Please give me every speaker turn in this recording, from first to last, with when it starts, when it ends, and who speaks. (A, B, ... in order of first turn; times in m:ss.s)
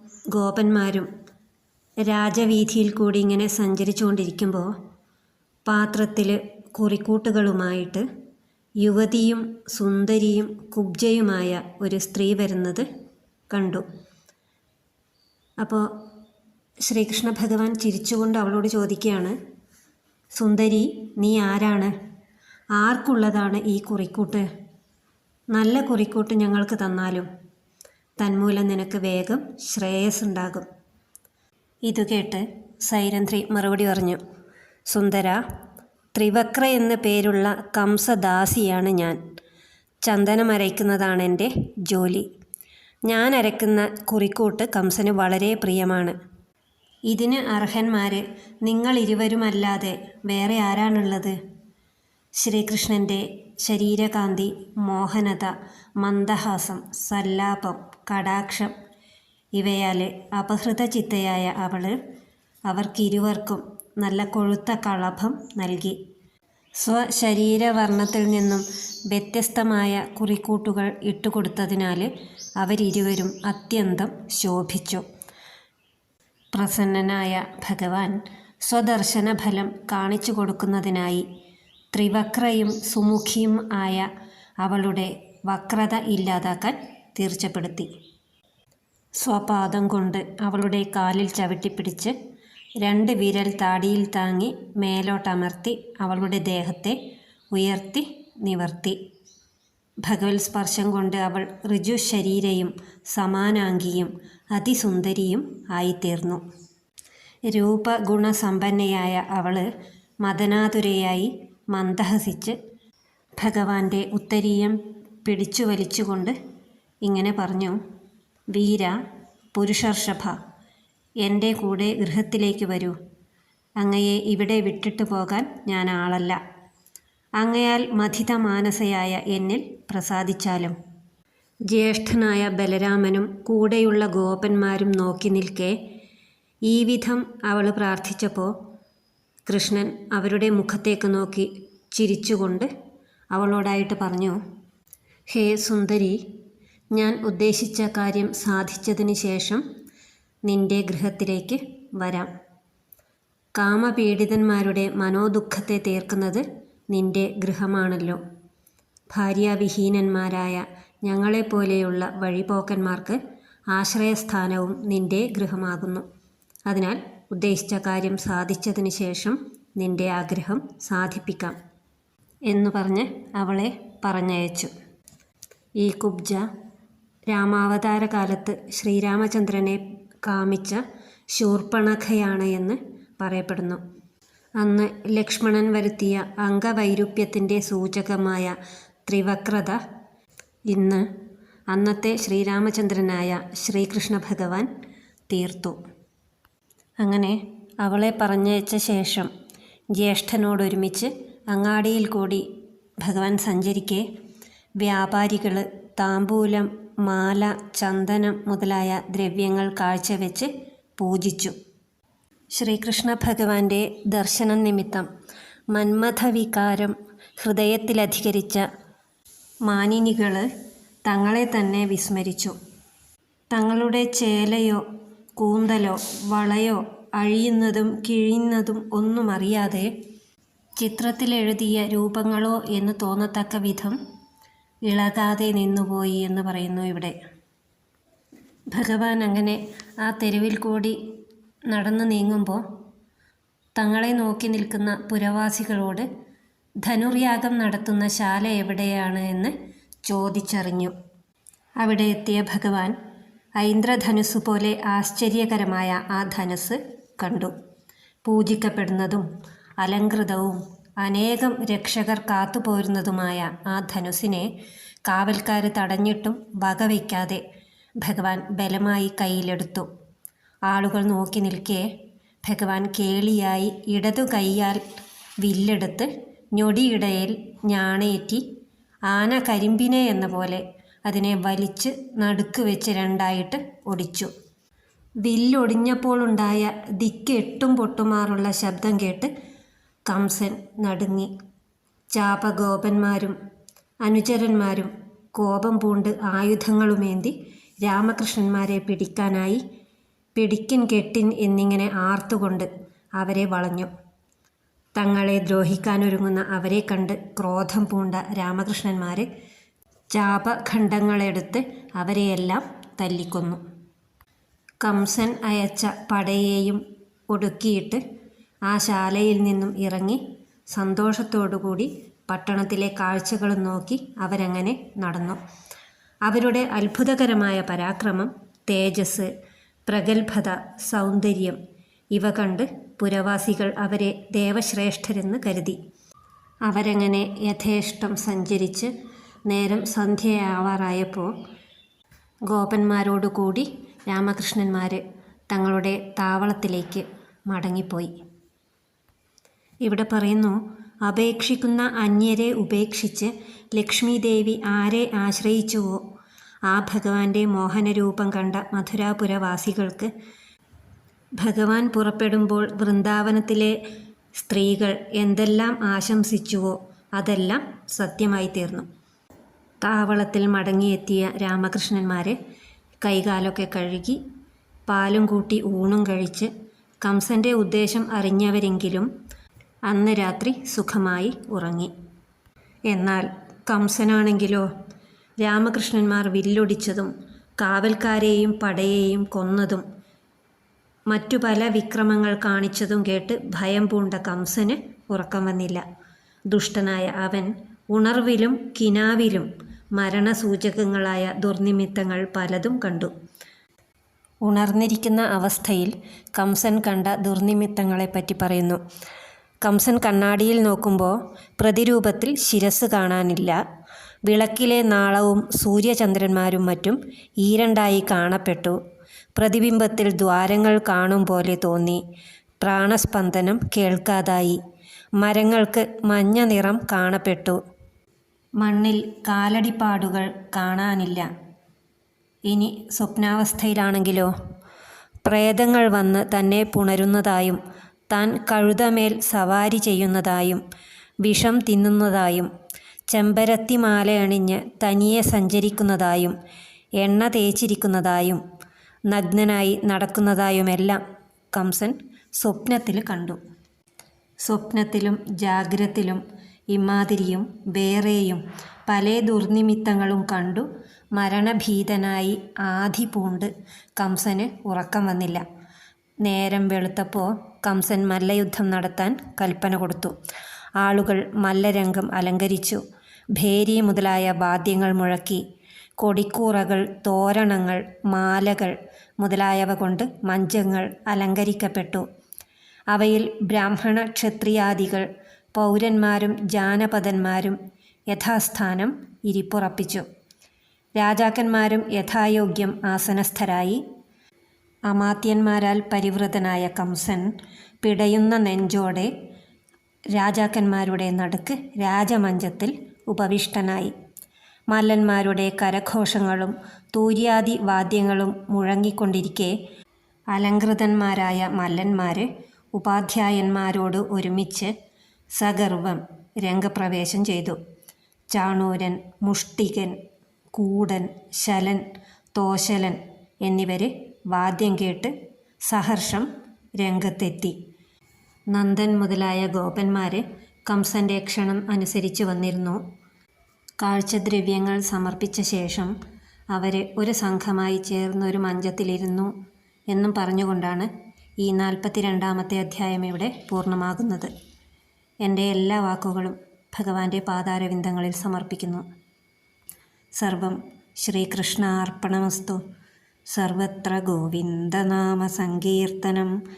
0:00.3-0:01.1 A
0:02.1-0:04.7 A
0:05.6-0:08.1 A
0:08.8-0:12.9 A
0:13.5-0:13.8 A
0:15.6-0:15.9 A
0:16.8-0:19.4 A
0:20.3-0:21.9 A
0:22.8-0:24.5 A
0:25.5-0:27.3 A
0:28.2-0:30.6 A
0:31.8-0:34.2 A
0:34.9-0:35.4 A
0:36.1-0:39.2 A
0:40.0-0:42.2 A
0:43.1-0:46.2 A
0:47.1-0:51.4 A
0:52.4-0:58.7 A
0:59.6-1:02.0 A
1:02.7-1:06.0 A
1:06.8-1:15.0 A
1:16.5-1:21.2 A
1:21.9-1:24.1 A
1:24.6-1:27.9 A
1:29.2-1:32.1 A
1:32.8-1:37.0 A
1:37.5-1:39.0 A
1:40.0-1:46.4 A
1:47.5-1:49.7 A
1:50.2-1:52.6 A
1:53.4-1:56.4 A
1:57.0-1:57.8 A
1:58.5-1:59.0 A
1:59.5-2:00.4 A
2:01.2-2:03.0 A
2:03.8-2:06.4 A
2:07.4-2:10.8 A
2:11.7-2:15.8 A
2:16.6-2:18.5 A
2:19.5-2:22.7 A
2:23.3-2:24.4 A
2:25.3-2:26.2 A
2:26.9-2:29.6 A
2:30.5-2:32.3 A
2:33.6-2:38.2 A
2:39.1-2:43.2 A
2:43.7-2:46.0 A
2:46.7-2:51.6 A
2:52.5-2:54.7 A
2:55.8-2:56.5 A
2:57.3-3:00.8 A
3:01.3-3:03.8 A
3:04.6-3:08.6 A
3:09.1-3:09.8 A
3:10.7-3:11.0 A
3:11.7-3:14.7 A
3:15.3-3:15.8 A
3:17.0-3:19.3 A
3:19.9-3:22.5 A
3:23.0-3:24.0 A
3:24.8-3:31.6 A
3:32.5-3:35.1 A
3:35.7-3:38.6 A
3:39.6-3:40.5 A
3:41.0-3:42.6 A
3:43.5-3:44.8 A
3:45.4-3:49.9 A
3:50.8-3:54.0 A
3:54.9-3:57.2 A
3:58.7-4:01.0 A
4:01.7-4:02.6 A
4:03.8-4:06.1 A
4:06.8-4:09.5 A
4:10.0-4:10.9 A
4:11.8-4:13.0 A
4:13.6-4:17.5 A
4:18.2-4:19.2 A
4:19.8-4:24.5 A
4:25.0-4:27.4 A
4:28.0-4:29.9 A
4:30.7-4:31.9 A
4:32.4-4:34.8 A
4:35.4-4:38.4 A
4:39.1-4:44.3 A
4:45.2-4:49.3 A
4:50.1-4:51.3 A
4:52.1-4:53.4 A
4:54.0-4:59.6 A
5:00.4-5:03.9 A
5:05.0-5:09.3 A
5:10.1-5:13.6 A
5:14.8-5:18.0 A
5:18.7-5:25.4 A
5:26.2-5:29.3 A
5:29.9-5:31.6 A
5:32.1-5:35.8 A
5:36.6-5:38.9 A
5:39.5-5:41.4 A
5:42.5-5:48.1 A
5:49.8-5:56.0 A
5:56.7-6:00.1 A
6:01.4-6:03.8 A
6:04.4-6:08.9 A
6:09.8-6:12.4 A
6:13.0-6:14.2 A
6:14.9-6:16.5 A
6:17.0-6:19.1 A
6:19.9-6:21.9 A
6:22.9-6:24.6 A
6:25.4-6:29.8 A
6:31.1-6:35.8 A
6:36.5-6:43.1 A
6:44.4-6:48.8 A
6:49.6-6:53.6 A
6:54.2-6:58.8 A
6:59.4-7:02.0 A
7:02.6-7:04.6 A
7:05.2-7:07.6 A
7:08.6-7:11.3 A
7:12.5-7:14.3 A
7:15.2-7:17.6 A
7:18.1-7:20.6 A
7:21.2-7:22.5 A
7:23.1-7:26.4 A
7:27.0-7:28.4 A
7:29.1-7:31.0 A
7:31.5-7:33.4 A
7:34.4-7:45.4 A
7:46.2-7:50.2 A
7:50.8-7:52.8 A
7:53.4-7:55.4 A
7:56.0-8:02.0 A
8:02.9-8:07.6 A
8:08.1-8:10.1 A
8:11.0-8:13.8 A
8:14.9-8:17.3 A
8:17.8-8:19.1 A
8:20.1-8:23.9 A
8:24.7-8:29.6 A
8:30.3-8:34.7 A
8:35.4-8:37.6 A
8:38.3-8:39.9 A
8:40.5-8:45.1 A
8:45.6-8:46.3 A
8:46.8-8:47.6 A
8:48.5-8:52.8 A
8:53.8-8:55.9 A
8:56.5-8:59.3 A
8:59.9-9:00.9 A
9:01.4-9:04.3 A
9:05.2-9:08.9 A
9:10.2-9:12.6 A
9:13.3-9:16.4 A